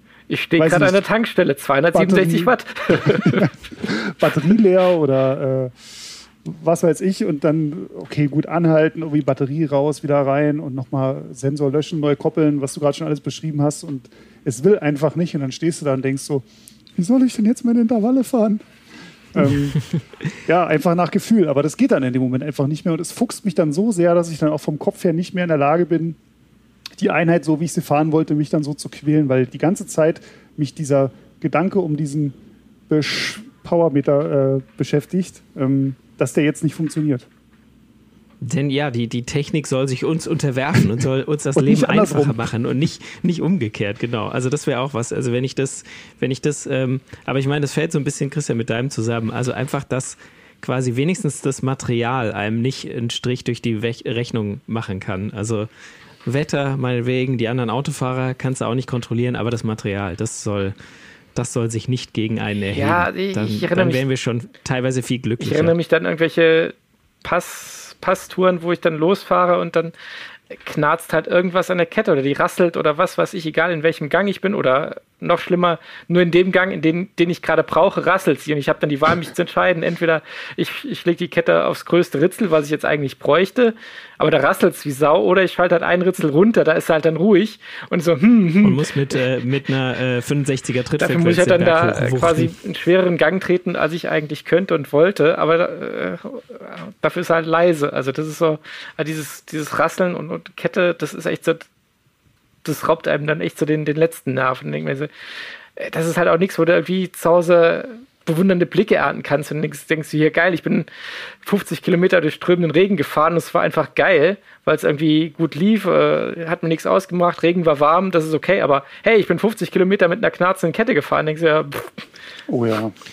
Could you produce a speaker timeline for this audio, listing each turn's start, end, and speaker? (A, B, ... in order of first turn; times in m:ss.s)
0:00.3-0:03.5 A
0:00.6-0:01.0 B
0:01.9-0:05.7 B
0:06.4-0:18.6 B
0:19.3-0:19.8 B
0:20.4-0:26.2 B
0:27.0-0:32.4 B
0:32.9-0:37.3 B
0:38.4-0:55.7 C
0:41.5-0:42.4 B
0:56.2-1:00.7 C
1:01.3-1:05.7 C
1:02.7-1:04.0 A
1:05.4-1:09.9 A
1:10.5-1:28.8 A
1:28.6-1:32.5 C
1:31.0-1:41.7 A
1:42.6-1:45.1 A
1:45.8-1:50.9 A
1:51.4-2:02.0 A
2:02.5-2:02.9 B